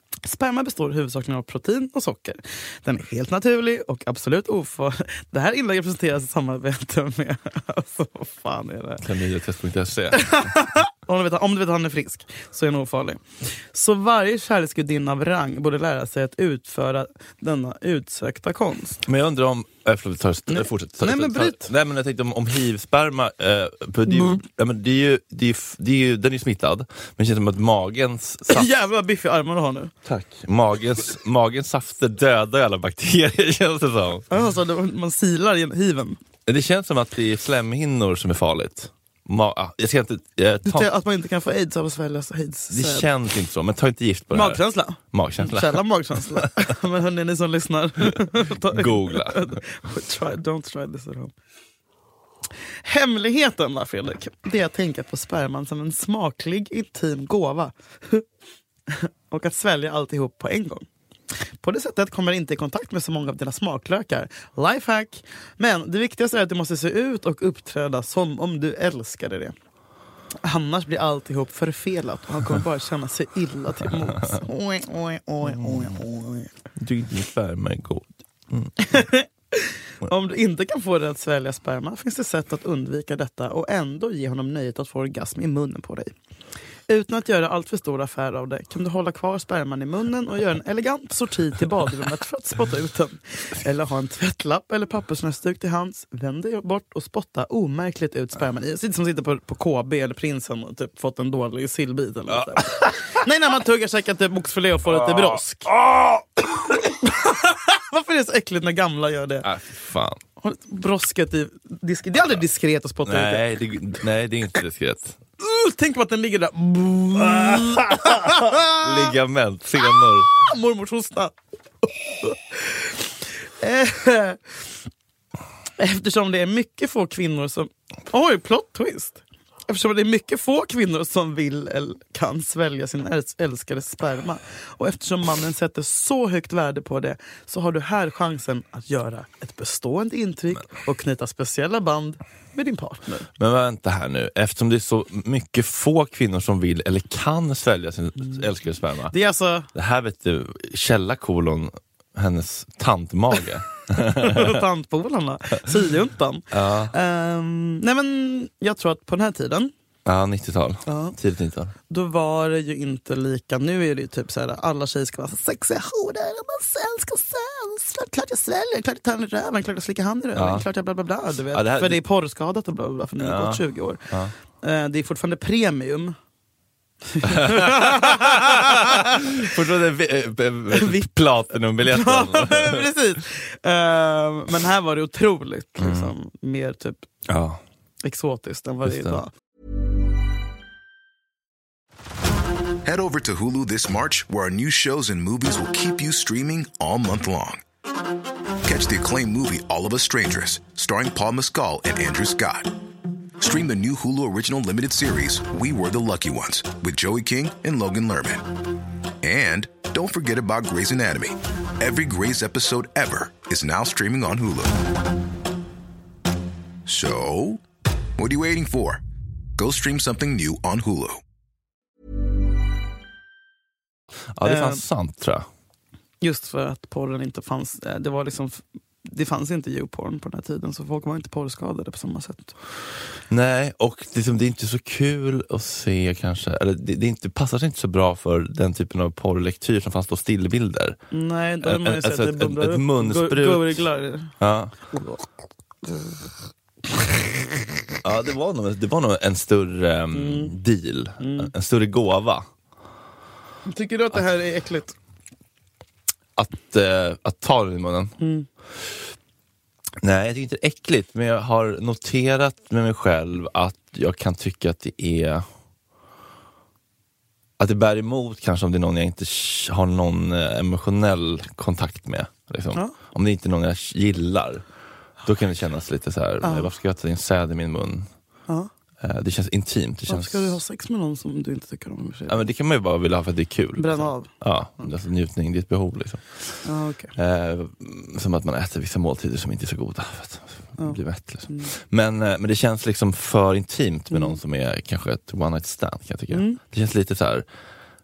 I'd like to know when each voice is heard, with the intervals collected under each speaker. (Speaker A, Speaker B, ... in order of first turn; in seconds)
Speaker A: 0.2-9.0, 10.1-19.0, 20.5-21.7, 28.5-29.9, 34.3-36.2, 40.6-43.1, 44.3-51.3, 52.8-58.2, 58.9-60.9, 61.6-69.5, 70.4-76.5, 78.8-86.1, 86.9-105.7, 106.5-109.5, 110.4-113.5, 115.4-119.1, 120.4-124.4, 125.8-143.3, 149.1-149.7, 154.2-159.7, 160.8-161.2, 161.9-174.0, 174.6-176.2, 177.1-179.4, 181.8-187.1, 188.0-189.3, 224.4-224.8, 226.2-232.6, 241.1-244.3, 244.9-245.2, 245.8-246.2, 250.1-250.5, 251.2-251.5, 253.7-254.9, 258.2-258.5, 276.4-276.7, 280.1-282.4, 283.8-284.3, 286.6-287.1, 290.8-291.7, 294.1-294.4, 296.3-296.6
Speaker B: 9.0-10.5, 19.0-28.7, 30.1-34.2, 36.5-40.9, 42.7-46.5, 48.7-49.5, 73.9-74.4, 75.5-76.0, 76.8-79.0, 102.3-102.7, 104.9-106.2, 109.4-110.2, 113.0-115.2, 117.2-120.3, 143.4-149.1, 149.7-154.6, 156.5-156.9, 160.0-161.7, 170.3-170.7, 171.5-172.0, 173.2-174.3, 177.2-182.9, 185.8-186.1, 187.3-187.6, 188.8-189.2, 224.3-225.4, 233.3-241.0, 241.6-243.8, 244.4-244.8, 248.0-252.5, 256.4-258.1, 260.0-265.4, 267.6-274.6, 275.2-278.1, 279.0-280.6, 282.3-286.6, 287.1-297.4
Speaker C: 192.8-197.6, 198.6-202.7, 203.4-208.5, 209.2-214.8, 216.8-217.6, 218.2-219.0, 219.6-221.2